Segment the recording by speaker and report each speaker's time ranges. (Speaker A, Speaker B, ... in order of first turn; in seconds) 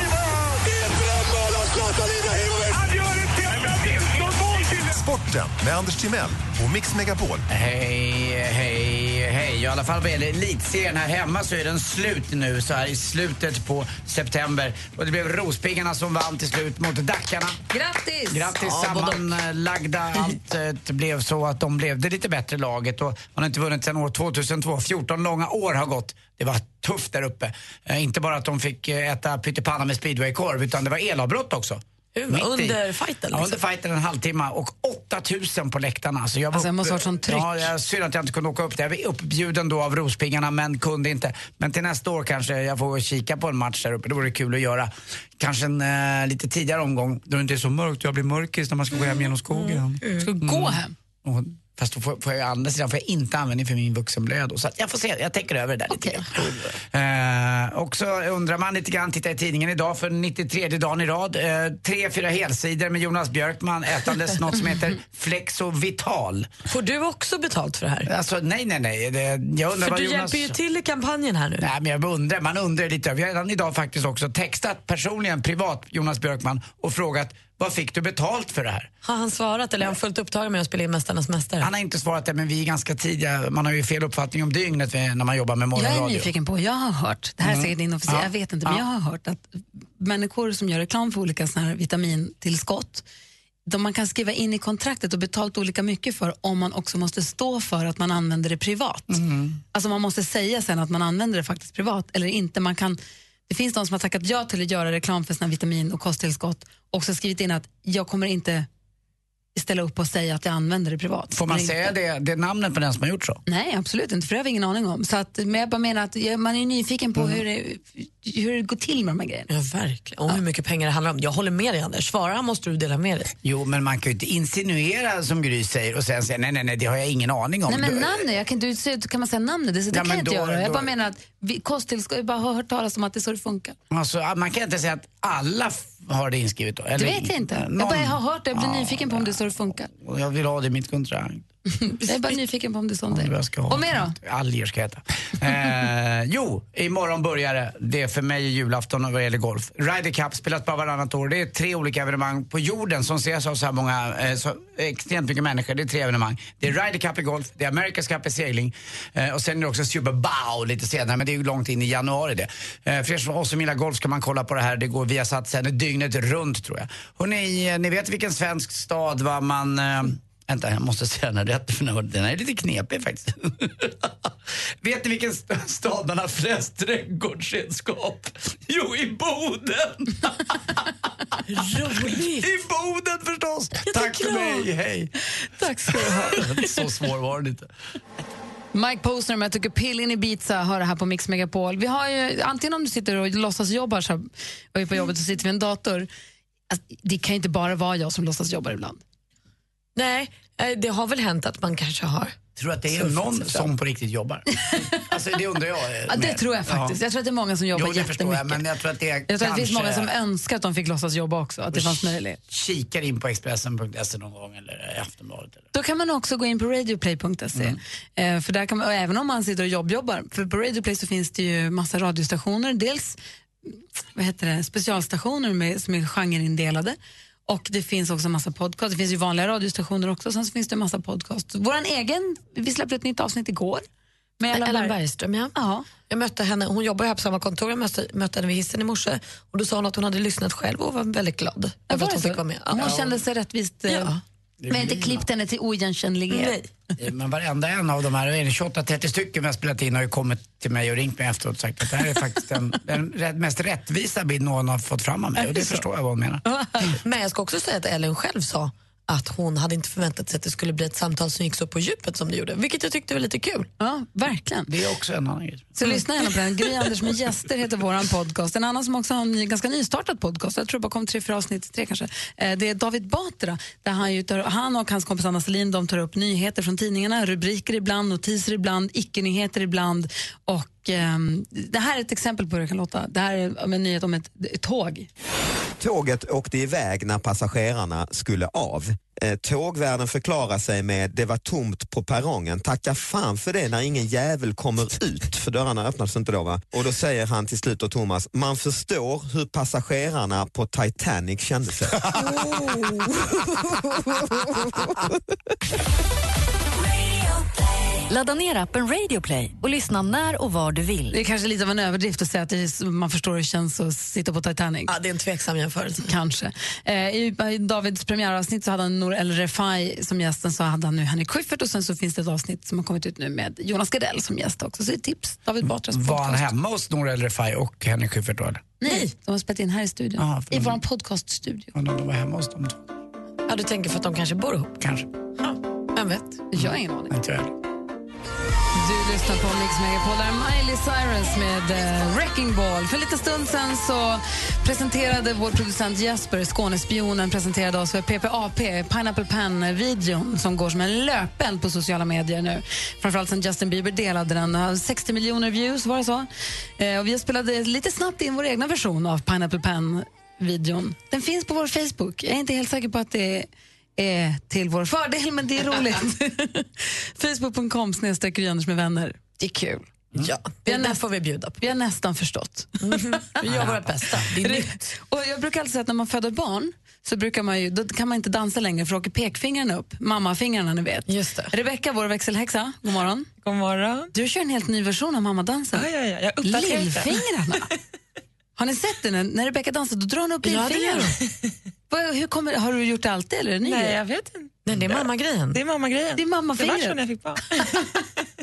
Speaker A: 2.8-7.5
Speaker B: 7.5-17.6, 18.3-32.8, 33.3-66.5, 68.0-70.6, 71.6-78.9, 81.6-86.3, 87.4-88.8, 99.1-99.6, 111.3-113.4, 123.4-128.2, 129.9-130.9, 133.9-141.4, 143.1-174.3, 174.8-180.8, 182.1-185.1, 185.9-187.7, 202.6-207.0, 207.7-210.1, 211.7-215.7, 244.6-245.3, 247.0-256.4, 264.7-266.0, 325.9-328.6, 330.2-330.8, 331.7-332.8, 334.8-335.1, 336.6-337.5, 373.4-374.2
Speaker C: 17.7-18.6, 36.5-37.7, 50.2-50.9, 85.8-93.1, 93.7-99.2, 99.7-108.7, 109.5-111.9, 113.5-119.5, 127.7-133.8, 137.0-139.9, 141.8-144.2, 185.6-186.4, 188.7-196.1, 196.7-199.0, 206.1-208.6, 209.3-212.4, 215.7-233.8, 234.4-234.9, 235.6-235.9, 241.9-244.1, 244.7-246.6, 256.5-256.9, 263.8-264.7, 265.8-285.1, 311.1-314.9, 316.0-326.5, 328.8-331.7, 336.5-337.1, 338.7-369.9, 370.7-371.0, 371.6-373.0, 374.4-383.3, 384.1-385.9, 386.4-387.7, 388.6-391.1, 391.9-394.0, 396.1-397.0
Speaker D: 32.1-33.5, 49.5-50.3, 56.3-56.7, 66.7-68.1, 69.8-71.7, 79.0-81.7, 119.5-123.3, 181.5-182.5, 184.0-184.7, 200.0-202.4, 202.9-203.7, 234.5-235.6, 236.1-243.1, 243.9-244.2, 246.3-246.7, 257.0-263.7, 314.9-316.1, 333.5-334.8, 335.4-336.4, 370.2-371.6, 372.8-374.9, 381.1-381.5, 390.4-391.1, 394.7-395.6
Speaker E: 285.8-302.0
Speaker F: 308.1-311.2
Speaker G: 383.4-384.1, 385.7-387.7, 393.6-394.6, 395.5-397.8